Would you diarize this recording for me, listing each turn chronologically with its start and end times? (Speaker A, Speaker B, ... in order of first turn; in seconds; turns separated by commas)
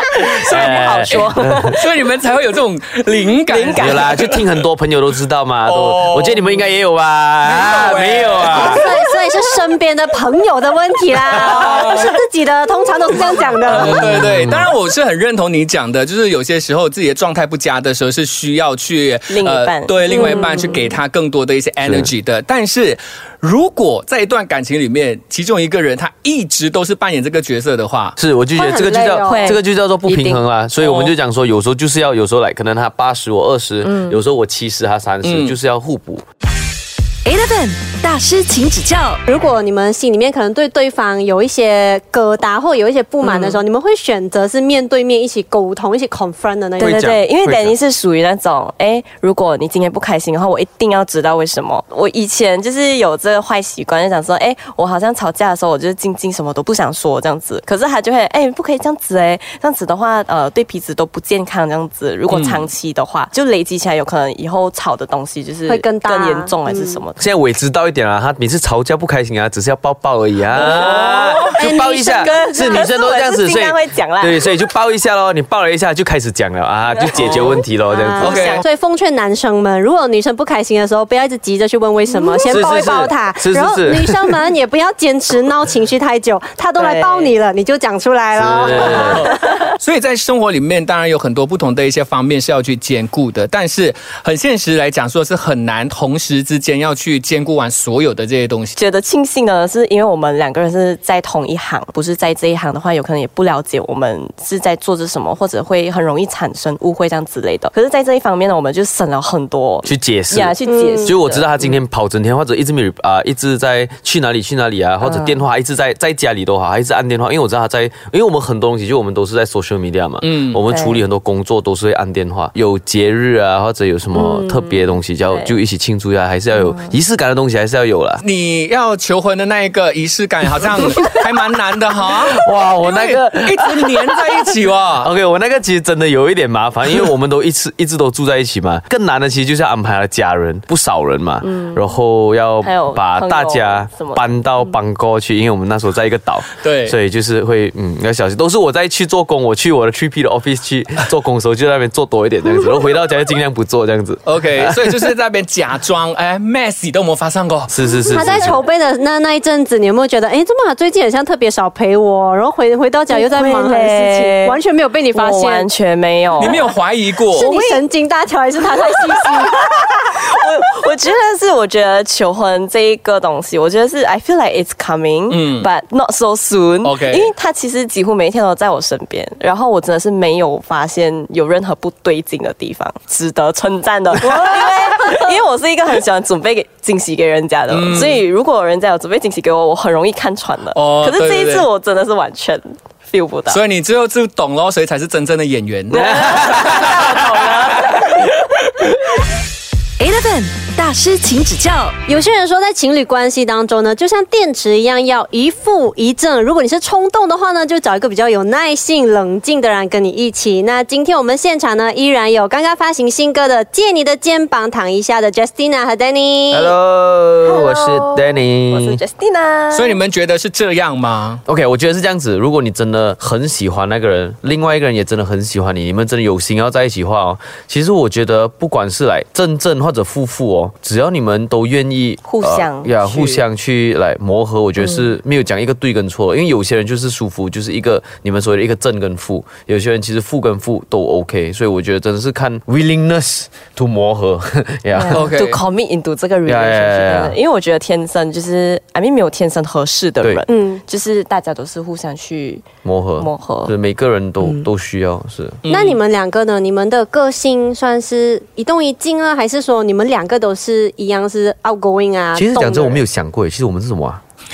Speaker A: 0.2-4.5, Speaker B: 0.4-1.8, Speaker C: 0.5-1.8, Speaker B: 3.5-4.1, Speaker C: 3.8-8.9, Speaker A: 5.6-6.7, Speaker A: 7.4-9.0, Speaker D: 8.5-14.2, Speaker A: 11.4-12.1, Speaker A: 13.6-28.1, Speaker C: 13.7-14.7, Speaker B: 19.3-21.0, Speaker D: 20.1-20.7, Speaker C: 21.8-22.1, Speaker C: 28.2-36.2, Speaker D: 28.5-29.6, Speaker B: 29.2-30.4, Speaker A: 30.8-31.1, Speaker B: 33.9-34.2, Speaker A: 35.2-35.5, Speaker E: 37.2-39.2, Speaker D: 39.2-47.1, Speaker B: 43.2-43.6, Speaker B: 46.8-67.2, Speaker C: 46.8-47.8, Speaker A: 62.3-62.7, Speaker D: 65.7-67.0, Speaker C: 67.2-78.4, Speaker B: 70.5-74.4, Speaker A: 70.7-71.5, Speaker D: 71.0-72.9, Speaker B: 76.9-77.6, Speaker A: 77.1-77.5, Speaker D: 77.9-89.3, Speaker B: 78.2-78.7, Speaker A: 78.2-78.6, Speaker B: 82.1-82.7, Speaker C: 82.4-84.4, Speaker B: 86.8-87.3, Speaker C: 88.3-89.3, Speaker A: 88.8-98.8, Speaker B: 98.8-111.8, Speaker C: 109.8-128.2, Speaker D: 110.7-111.2, Speaker B: 115.0-115.4, Speaker A: 120.2-120.6, Speaker B: 120.7-121.0, Speaker B: 124.1-125.6, Speaker A: 128.2-135.1, Speaker C: 132.3-134.4, Speaker C: 135.0-154.9, Speaker B: 141.4-141.8, Speaker B: 142.6-144.3, Speaker A: 146.6-146.9, Speaker A: 154.2-157.7, Speaker C: 157.7-158.6, Speaker D: 157.9-165.7, Speaker B: 163.1-166.6, Speaker A: 166.3-167.5, Speaker D: 166.4-169.7, Speaker B: 167.4-167.8, Speaker B: 168.8-193.6, Speaker A: 175.3-175.7, Speaker A: 176.8-177.3, Speaker A: 187.7-188.2, Speaker A: 190.7-191.7, Speaker A: 193.5-197.3, Speaker B: 195.9-197.7, Speaker C: 195.9-197.9, Speaker E: 200.0-202.0, Speaker D: 202.1-216.7, Speaker C: 216.5-219.0, Speaker B: 217.4-220.0, Speaker A: 219.7-221.4, Speaker C: 221.5-245.3, Speaker B: 232.2-233.4, Speaker B: 244.9-252.7, Speaker A: 245.1-245.6, Speaker C: 246.4-247.3, Speaker D: 250.5-250.8, Speaker C: 252.8-255.6, Speaker B: 253.2-253.7, Speaker A: 255.6-256.0, Speaker D: 255.7-263.0, Speaker C: 262.4-264.2